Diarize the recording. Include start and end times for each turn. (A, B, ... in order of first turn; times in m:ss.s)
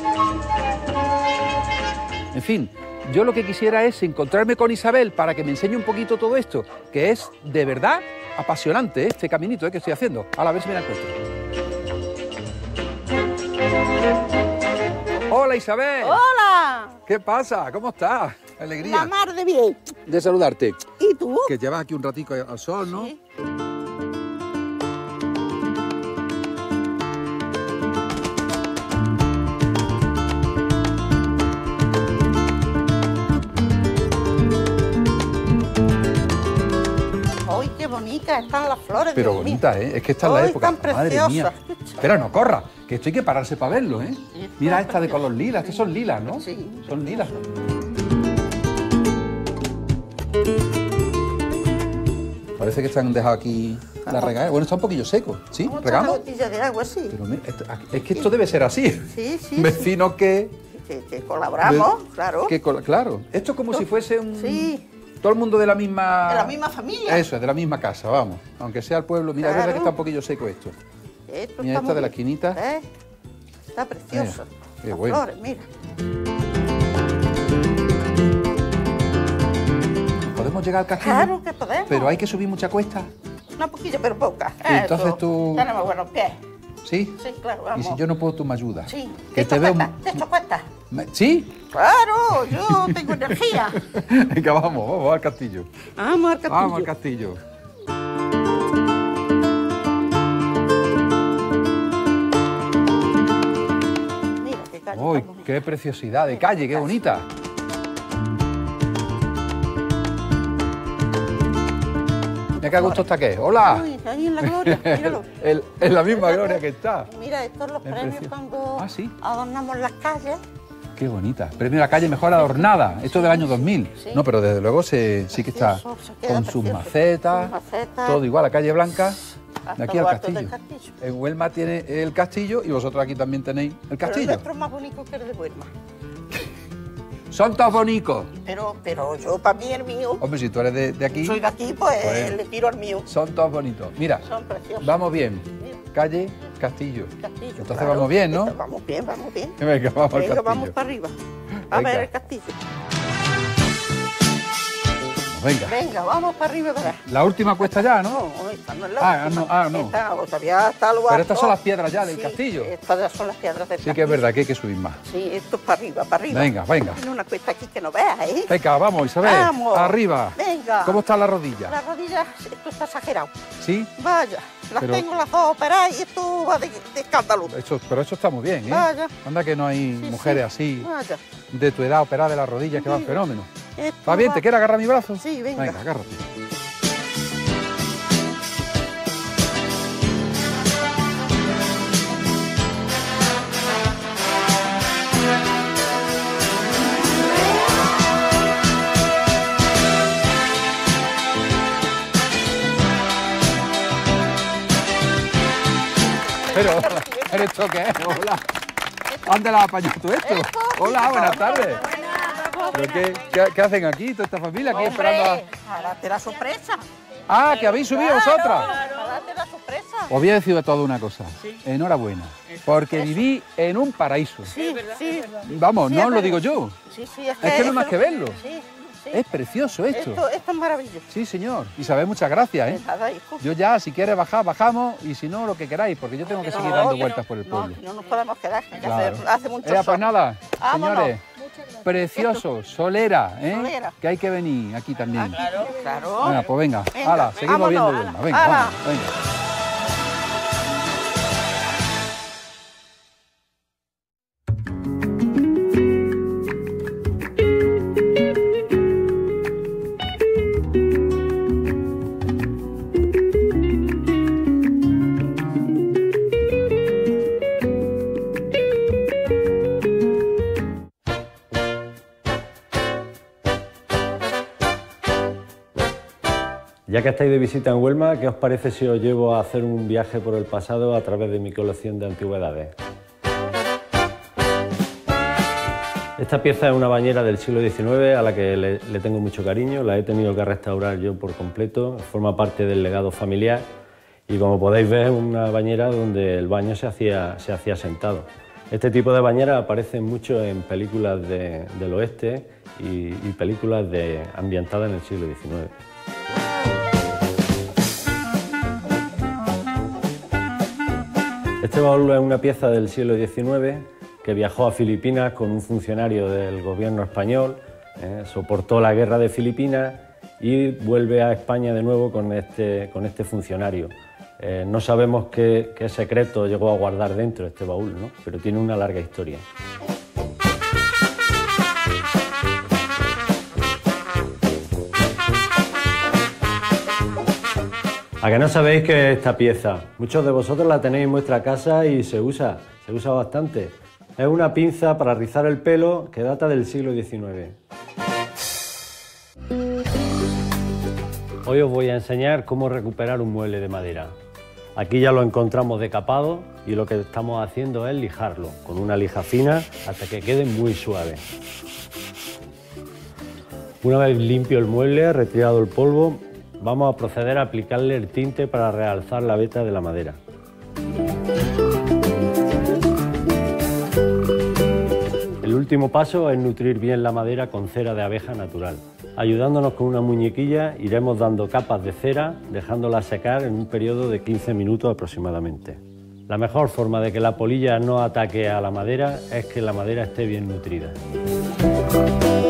0:02.3-0:11.2 A
0:15.3-0:16.2 A
0:16.0-0:16.9 B
0:17.1-0:19.1 A
0:18.8-0:19.8 B
0:20.1-0:20.9 A
0:21.0-0:21.5 B
0:21.4-0:23.1 A
0:22.8-0:23.2 B
0:37.5-0:39.6 B
0:39.1-0:47.4 A
0:40.2-0:42.0 B
0:44.3-0:45.8 B
0:46.3-0:46.8 B
0:52.6-0:56.2 A
0:54.0-0:54.3 B
0:55.6-0:57.2 B
0:57.1-1:00.5 A
0:59.1-0:59.9 B
1:00.7-1:02.5 B
1:01.6-1:01.9 A
1:02.4-1:04.7 A
1:04.3-1:04.8 B
1:05.2-1:10.7 A
1:06.3-1:07.2 B
1:09.4-1:09.9 B
1:11.3-1:12.8 B
1:11.6-1:12.6 A
1:13.7-1:15.6 B
1:14.1-1:15.2 A
1:20.2-1:21.3 A
1:21.0-1:22.2 B
1:21.9-1:23.1 A
1:23.6-1:26.4 B
1:24.6-1:25.7 A
1:26.8-1:27.2 A
1:27.2-1:28.0 B
1:27.7-1:30.2 A
1:28.9-1:30.7 B
1:30.9-1:31.5 A
1:31.7-1:33.8 B
1:32.6-1:35.7 A
1:36.0-1:36.9 B
1:36.5-1:37.4 A
1:44.4-1:45.5 B
1:44.9-1:47.2 A
1:46.3-1:46.9 B
1:52.6-1:53.9 A
1:52.8-1:53.0 B
1:53.6-1:55.2 B
1:54.4-1:57.1 A
1:56.1-2:00.4 B
1:57.8-1:59.1 A
2:01.0-2:09.2 A
2:03.1-2:04.2 B
2:05.3-2:08.2 B
2:09.7-2:10.9 B
2:09.8-2:14.4 A
2:14.0-2:15.7 B
2:17.3-2:18.3 A
2:18.4-2:20.2 B
2:20.2-2:21.4 A
2:21.2-2:23.0 B
2:22.0-2:22.4 A
2:23.0-2:24.2 A
2:24.2-2:25.8 B
2:24.8-2:28.6 A
2:27.2-2:29.5 B
2:29.6-2:30.7 A
2:30.1-2:31.1 B
2:31.7-2:32.1 A
2:31.7-2:32.5 B
2:35.3-2:35.8 A
2:35.6-2:37.0 B
2:36.8-2:38.2 A
2:38.0-2:44.2 B
2:39.0-2:39.9 A
2:41.1-2:42.7 A
2:43.8-2:45.0 A
2:45.0-2:48.5 B
2:46.3-2:47.0 A
2:48.5-2:51.8 A
2:49.2-2:51.0 B
2:51.6-2:53.3 B
2:53.6-2:53.9 A
2:54.0-2:57.5 B
2:54.8-2:55.0 A
2:57.5-3:00.9 A
2:58.7-2:59.1 B
3:00.0-3:01.2 B
3:01.5-3:03.5 A
3:02.8-3:03.1 B
3:03.8-3:04.4 B
3:04.0-3:06.2 A
3:05.2-3:05.8 B
3:26.5-3:28.4 A
3:26.5-3:27.4 B
3:29.2-3:31.8 A
3:30.2-3:33.0 B
3:32.7-3:35.4 A
3:34.7-3:36.8 B
3:37.3-3:38.8 A
3:37.9-3:40.1 B
3:40.1-3:44.6 A
3:44.5-3:49.2 B
3:45.4-3:46.8 A
3:47.4-3:48.4 A
3:49.1-3:50.2 A
3:49.9-3:51.0 B
3:51.1-3:52.8 A
3:52.7-3:53.4 B
3:53.4-3:57.8 A
3:56.3-4:01.1 B
3:58.8-4:01.2 A
4:01.8-4:05.5 A
4:01.8-4:02.4 B
4:03.5-4:03.9 B
4:05.4-4:06.4 B
4:06.2-4:09.1 A
4:06.9-4:08.8 B
4:36.9-4:42.7 C
4:46.2-4:53.7 C
4:54.3-5:05.7 C
5:11.6-5:29.4 C
5:38.2-5:47.6 C
5:51.4-5:54.1 C
5:54.8-6:01.2 C
6:03.8-6:10.2 C
6:15.4-6:31.0 C